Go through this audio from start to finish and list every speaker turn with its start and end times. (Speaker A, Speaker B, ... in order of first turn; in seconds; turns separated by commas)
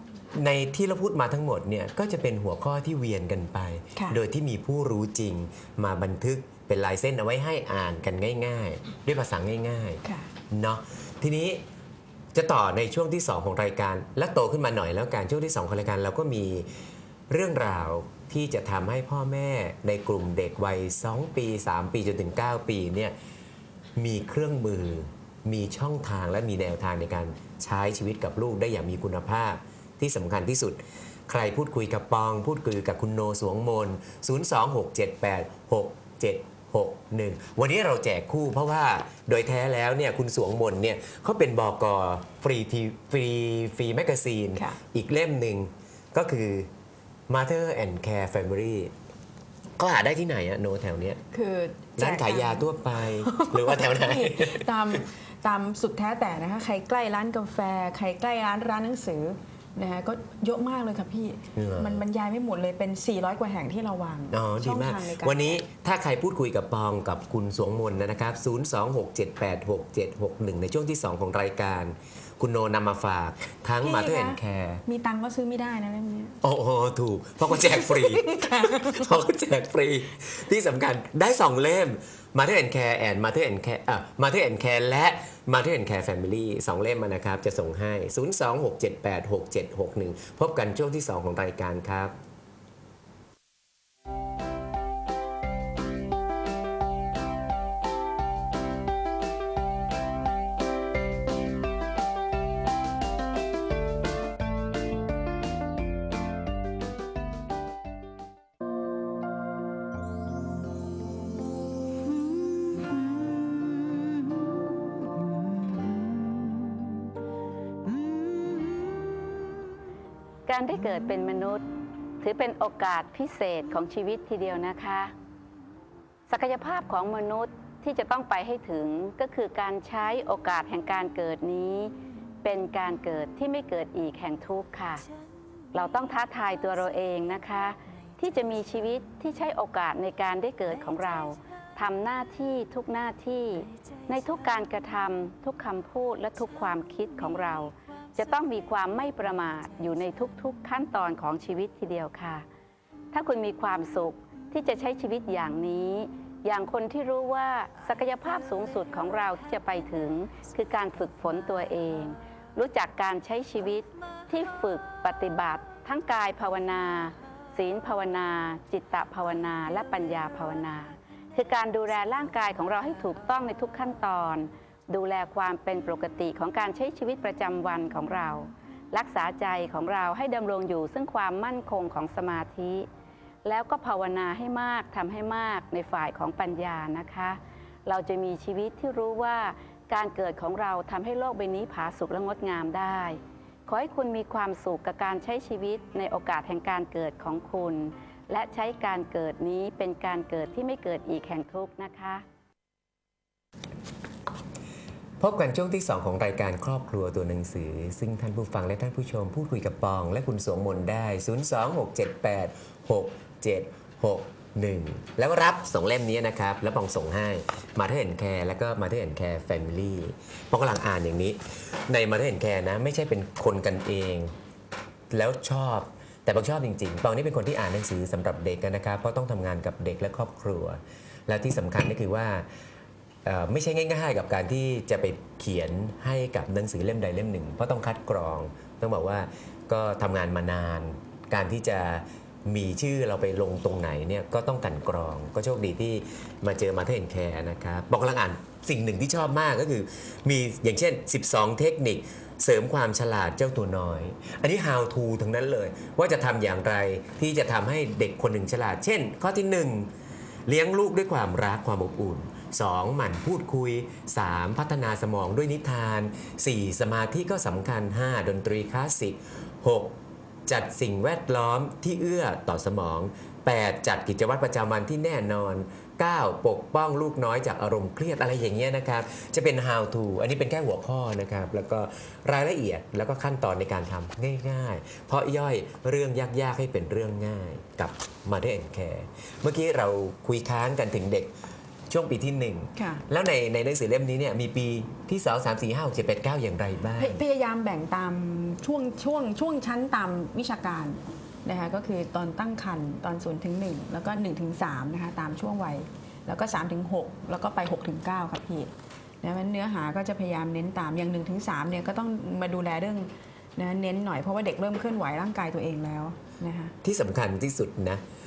Speaker A: 0.3-11.6, Speaker B: 10.0-10.3, Speaker A: 12.3-16.7, Speaker A: 17.3-23.1, Speaker A: 23.9-46.7, Speaker A: 47.3-48.9, Speaker A: 49.8-51.2, Speaker B: 51.3-52.7, Speaker A: 52.0-54.7, Speaker B: 53.2-65.6, Speaker A: 61.5-62.0, Speaker A: 64.3-74.8, Speaker B: 73.8-76.4, Speaker A: 76.4-92.1, Speaker B: 77.5-79.0, Speaker C: 120.5-121.6, Speaker C: 122.2-125.1, Speaker C: 126.3-135.0, Speaker C: 135.7-152.4, Speaker C: 153.1-182.9, Speaker C: 183.4-202.2, Speaker A: 205.2-224.3, Speaker A: 225.1-232.4, Speaker A: 233.2-259.9, Speaker A: 260.5-291.3, Speaker A: 291.9-297.2, Speaker B: 292.8-293.0, Speaker B: 297.0-308.7, Speaker B: 309.2-316.7, Speaker A: 316.8-318.0